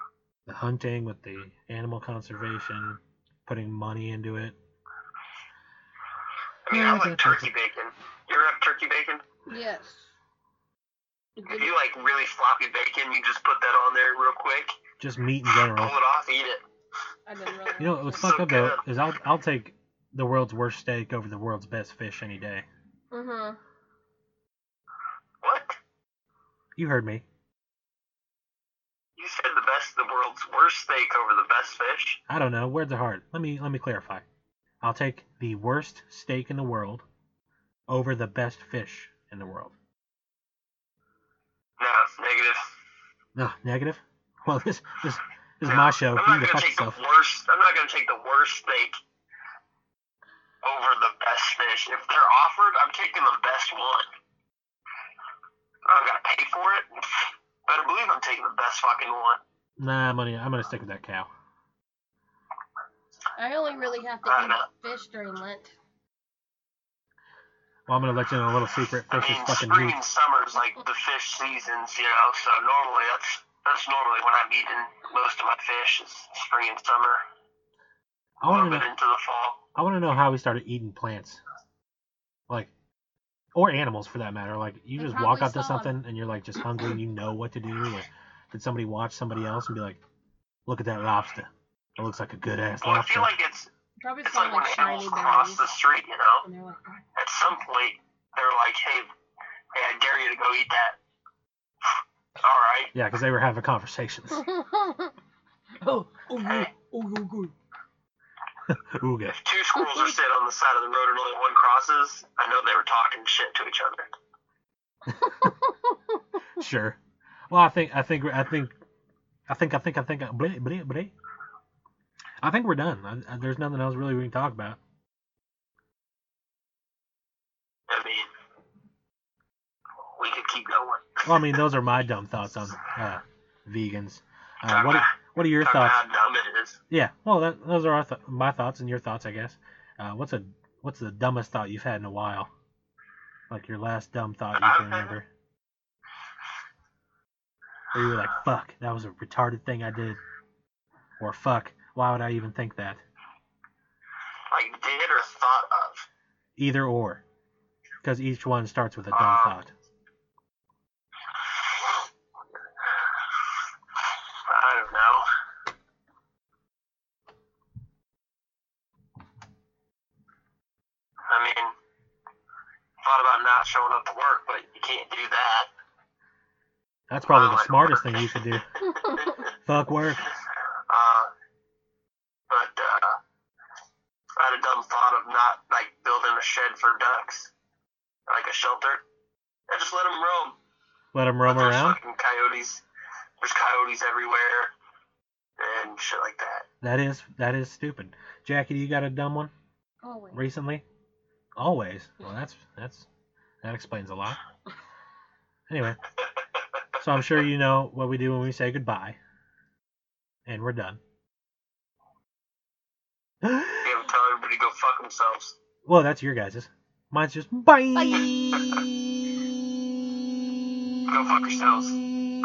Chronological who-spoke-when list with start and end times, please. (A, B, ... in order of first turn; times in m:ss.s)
0:00.5-0:04.6 A
0:06.6-0:09.2 B
0:06.7-0:07.5 A
0:09.5-0:10.1 C
0:11.4-0:11.7 C
0:11.5-0:14.8 B
0:15.0-0:16.0 A
0:15.7-0:16.6 B
0:17.3-0:18.4 C
0:17.8-0:22.7 A
0:18.2-0:18.8 B
0:23.1-0:23.6 C
0:25.4-0:25.8 B
0:26.8-0:27.2 A
0:29.2-0:32.2 B
0:32.3-0:34.2 A
0:34.8-0:37.0 A
0:37.9-0:39.7 A
0:41.8-0:42.6 B
0:43.3-0:47.0 A
0:45.6-0:49.0 B
0:50.6-0:54.0 B
0:55.9-0:59.4 B
0:59.8-1:01.3 A
1:03.4-1:05.8 C
1:04.2-1:04.7 B
1:07.9-1:10.0 A
1:09.1-1:17.2 B
1:18.4-1:18.9 A
1:18.5-1:19.6 B
1:19.7-1:21.4 A
1:23.5-1:30.0 A
1:25.0-1:25.9 C
1:30.6-1:33.3 A
1:32.8-1:33.7 B
1:34.0-1:35.7 C
1:34.2-1:36.4 B
1:36.4-1:37.0 C
1:37.2-1:39.1 B
1:39.7-1:41.0 B
1:42.4-1:42.9 B
1:42.9-1:44.5 A
1:44.5-1:45.1 C
1:45.8-1:47.5 C
1:48.7-1:49.4 A
1:49.3-1:54.1 B
1:55.2-1:55.5 A
1:56.6-1:57.0 A
1:57.5-1:58.7 A
1:59.5-2:01.1 A
2:02.4-2:04.8 A
2:07.9-2:08.3 B
2:10.2-2:11.6 B
2:11.2-2:16.0 A
2:14.6-2:16.8 B
2:16.9-2:22.5 A
2:23.5-2:25.3 A
2:24.5-2:25.2 B
2:27.9-2:30.2 A
2:31.2-2:33.0 A
2:34.5-2:36.1 B
2:36.6-2:37.2 A
2:38.0-2:39.7 A
2:39.1-2:39.6 B
2:44.5-2:45.2 B
2:51.3-2:51.7 B
2:53.0-2:55.7 B
2:57.1-2:58.7 A
2:57.3-2:59.5 B
2:59.5-3:00.2 A
3:00.9-3:01.3 B
3:02.5-3:03.2 B
3:04.4-3:07.5 B
3:08.3-3:09.0 B
3:09.7-3:10.6 B
3:11.1-3:12.0 A
3:11.4-3:12.8 B
3:13.4-3:14.7 B
3:15.6-3:16.7 B
3:16.8-3:19.5 A
3:20.0-3:20.5 C
3:20.3-3:20.8 A
3:21.6-3:23.1 A
3:23.6-3:24.4 A
3:25.7-3:26.0 A
3:26.2-3:27.0 B
3:27.0-3:29.2 A
3:30.4-3:31.0 A
3:33.4-3:34.0 A
3:33.8-3:35.6 B
3:35.8-3:38.3 A
3:41.1-3:42.0 B